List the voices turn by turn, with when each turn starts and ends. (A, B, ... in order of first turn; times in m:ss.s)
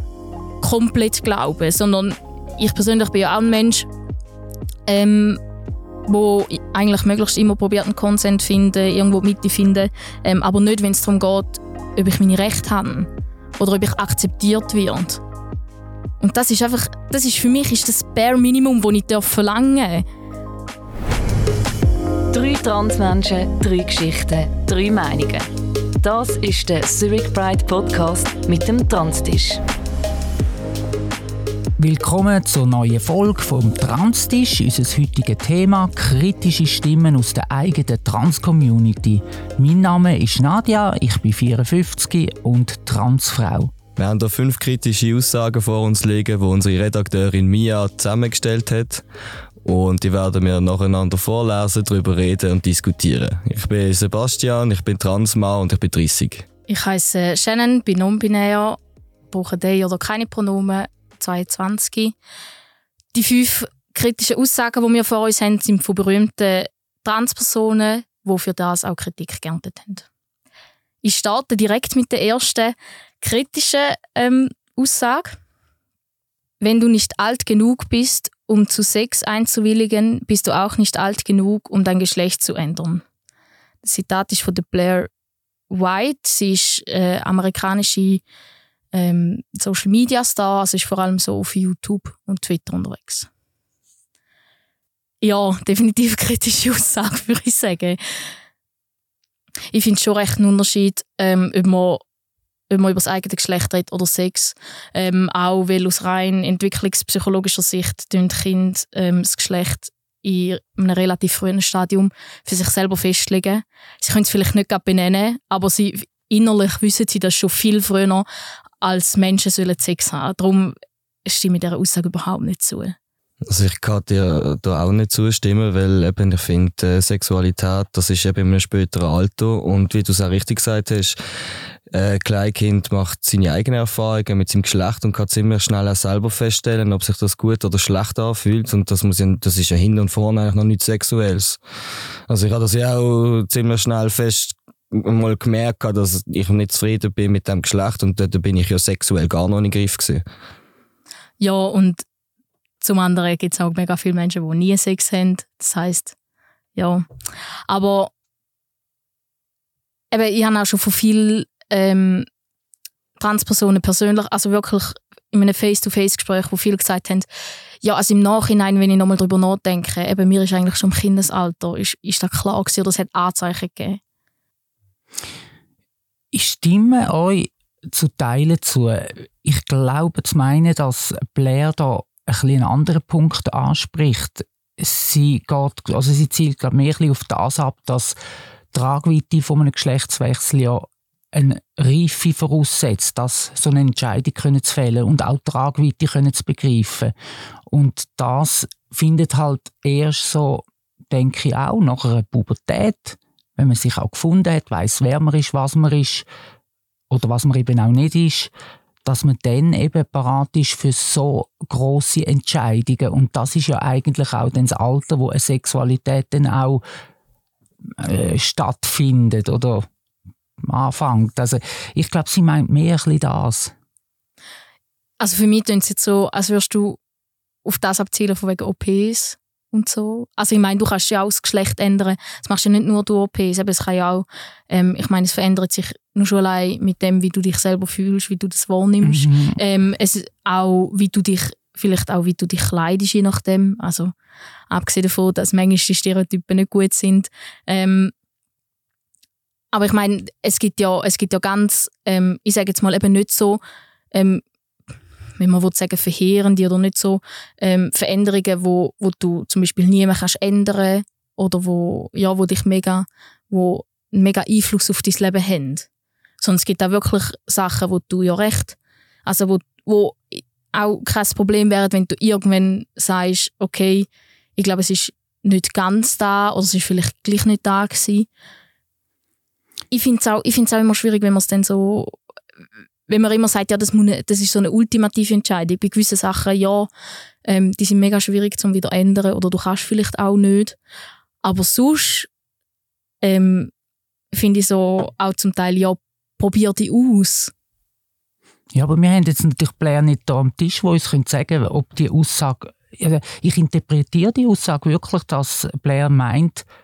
0:00.6-0:03.9 A
0:04.9-0:05.4 A
0:06.1-0:15.2 A
0:16.2-0:20.0 A
0:22.3-0:25.5 B
0:26.0-0:29.6 B
0:31.8-0:43.7 C
0:44.0-0:49.0 D
0:49.6-0:56.5 D
0:56.7-0:58.8 A
0:59.3-1:02.2 A
1:03.1-1:10.1 A
1:11.0-1:15.4 A
1:16.6-1:23.0 A
1:23.8-1:25.1 A
1:25.7-1:28.2 A
1:28.9-1:33.3 A
1:35.2-1:38.0 A
1:39.7-1:42.0 A
1:42.7-1:58.3 A
1:58.8-2:03.0 A
2:03.5-2:11.2 D
2:11.9-2:21.6 D
2:22.3-2:30.2 D
2:31.4-2:32.0 A
2:32.8-2:36.2 A
2:36.8-2:37.1 A
2:37.7-2:38.1 A
2:40.1-2:42.3 A
2:43.2-2:47.3 A
2:47.8-2:54.0 A
2:56.3-3:08.2 C
3:08.7-3:17.1 C
3:17.7-3:26.3 C
3:27.1-3:28.5 C
3:29.0-3:36.8 C
3:37.9-3:39.9 C
3:40.6-3:43.7 C
3:45.2-3:47.0 A
3:47.6-4:04.1 A
3:59.0-3:59.6 C
4:04.7-4:08.1 A
4:09.7-4:13.6 A
4:14.1-4:14.4 A
4:15.4-4:25.9 A
4:26.4-4:38.3 A
4:39.9-4:42.2 A
4:43.1-4:46.9 A
4:47.5-4:50.8 A
4:51.4-4:52.3 A
4:53.2-4:53.7 A
4:54.3-4:57.5 A
4:58.7-5:06.7 C